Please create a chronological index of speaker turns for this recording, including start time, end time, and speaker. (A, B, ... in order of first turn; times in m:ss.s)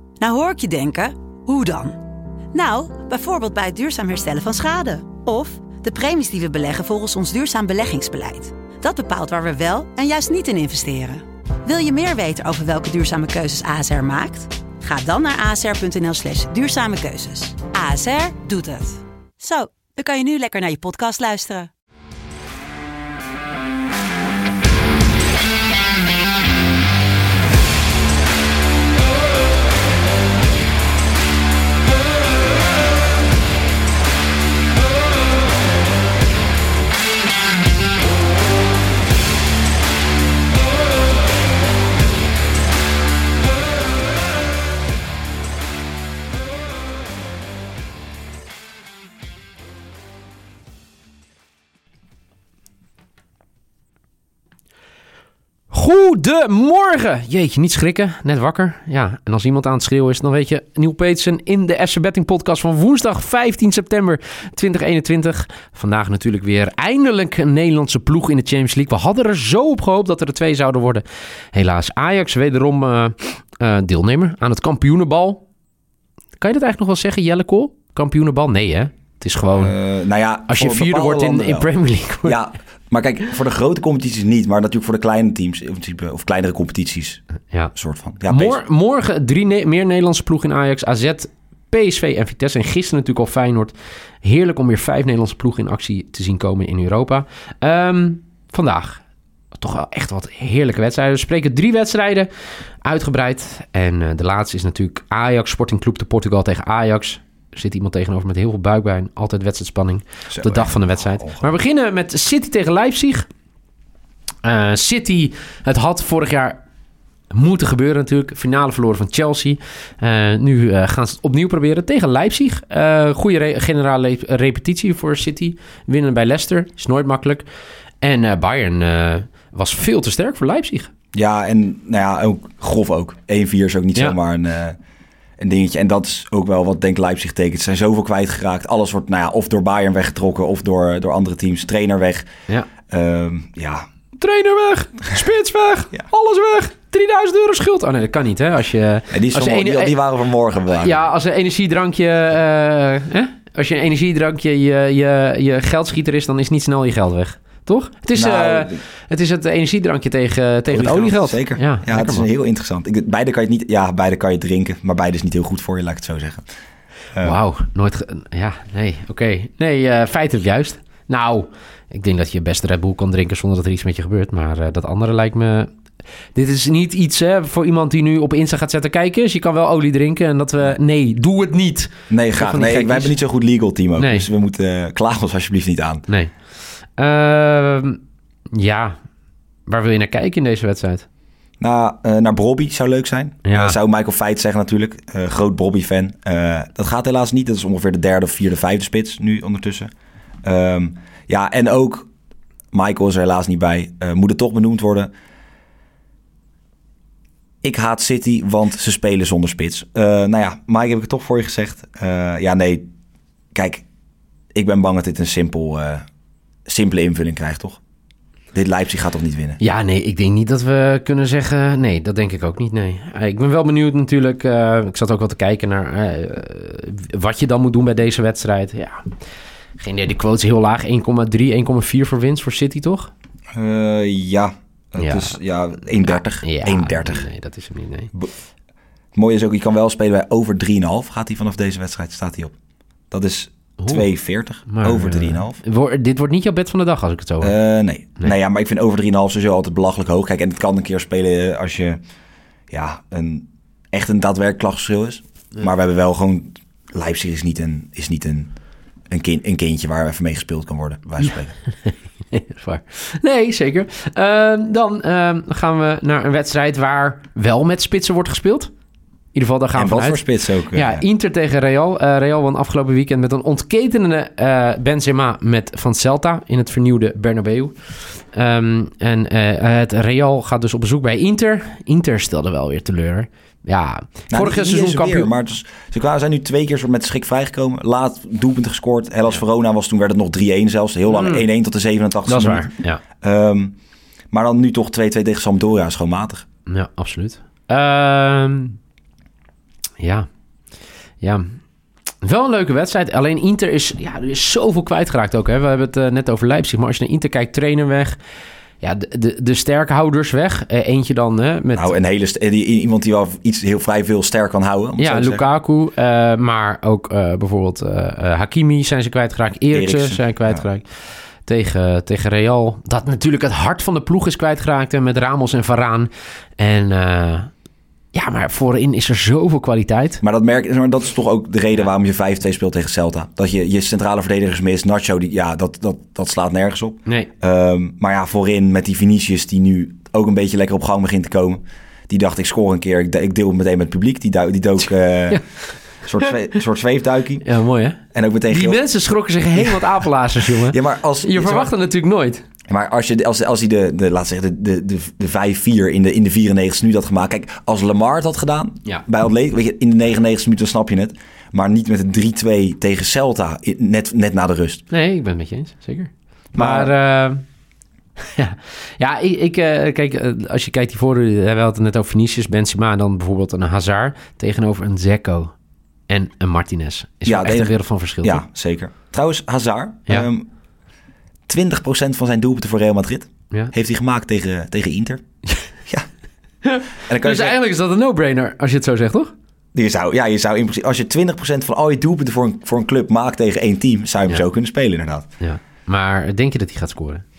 0:00.2-0:02.0 A
0:02.5-0:21.7 A
0:55.7-1:15.4 B
1:16.4-1:19.7 B
1:19.5-1:21.7 C
1:20.5-1:22.4 B
1:22.2-1:28.6 C
1:27.5-1:27.7 B
1:28.2-1:39.0 B
1:39.5-1:42.3 B
1:42.8-1:53.3 B
1:50.3-1:51.5 C
1:54.4-1:56.6 B
1:57.3-2:07.4 B
2:08.0-2:10.9 B
2:11.1-2:14.8 C
2:15.4-2:22.2 C
2:22.9-2:23.8 C
2:24.2-2:30.0 B
2:29.1-2:31.0 C
2:30.7-2:42.3 B
2:38.1-2:38.8 C
2:40.7-2:46.4 C
2:47.1-2:47.4 C
2:47.2-2:55.7 B
2:56.3-3:03.2 B
3:02.1-3:06.0 C
3:04.0-3:04.3 B
3:06.1-3:06.3 B
3:07.0-3:08.0 B
3:08.5-3:09.0 B
3:09.7-3:11.0 B
3:11.6-3:19.9 C
3:13.4-3:13.8 B
3:20.4-3:22.1 C
3:22.7-3:25.1 C
3:27.6-3:32.8 C
3:33.5-3:33.8 C
3:34.5-3:36.0 C
3:36.7-3:37.8 C
3:38.5-3:39.6 C
3:39.6-3:49.0 B
3:49.8-3:53.1 B
3:53.5-3:57.3 C
3:55.0-3:55.4 B
3:56.0-3:58.1 B
3:59.1-4:02.5 C
4:03.1-4:05.6 C
4:03.8-4:04.1 B
4:04.7-4:07.6 B
4:07.4-4:12.0 C
4:12.7-4:18.5 C
4:19.1-4:21.6 C
4:21.8-4:28.7 B
4:29.3-4:45.3 B
4:29.7-4:31.0 C
4:44.3-4:53.8 C
4:51.1-4:51.4 B
4:52.2-4:53.0 B
4:54.3-4:56.4 C
4:56.7-4:58.8 B
5:00.0-5:00.3 B
5:01.2-5:01.4 B
5:02.2-5:08.2 B
5:08.8-5:11.9 B
5:11.8-5:15.4 C
5:15.0-5:27.5 B
5:19.7-5:20.6 C
5:28.1-5:30.2 B
5:30.2-5:47.4 C
5:37.0-5:37.3 B
5:45.3-5:46.4 B
5:47.4-5:52.4 B
5:48.1-5:48.9 C
5:49.6-5:51.7 C
5:52.7-6:04.8 C
6:04.9-6:07.4 B
6:06.5-6:06.9 C
6:08.2-6:15.5 B
6:16.1-6:18.4 B
6:17.2-6:20.5 C
6:21.5-6:25.2 C
6:26.6-6:29.3 B
6:27.0-6:27.6 C
6:29.7-6:35.3 C
6:35.4-6:37.2 B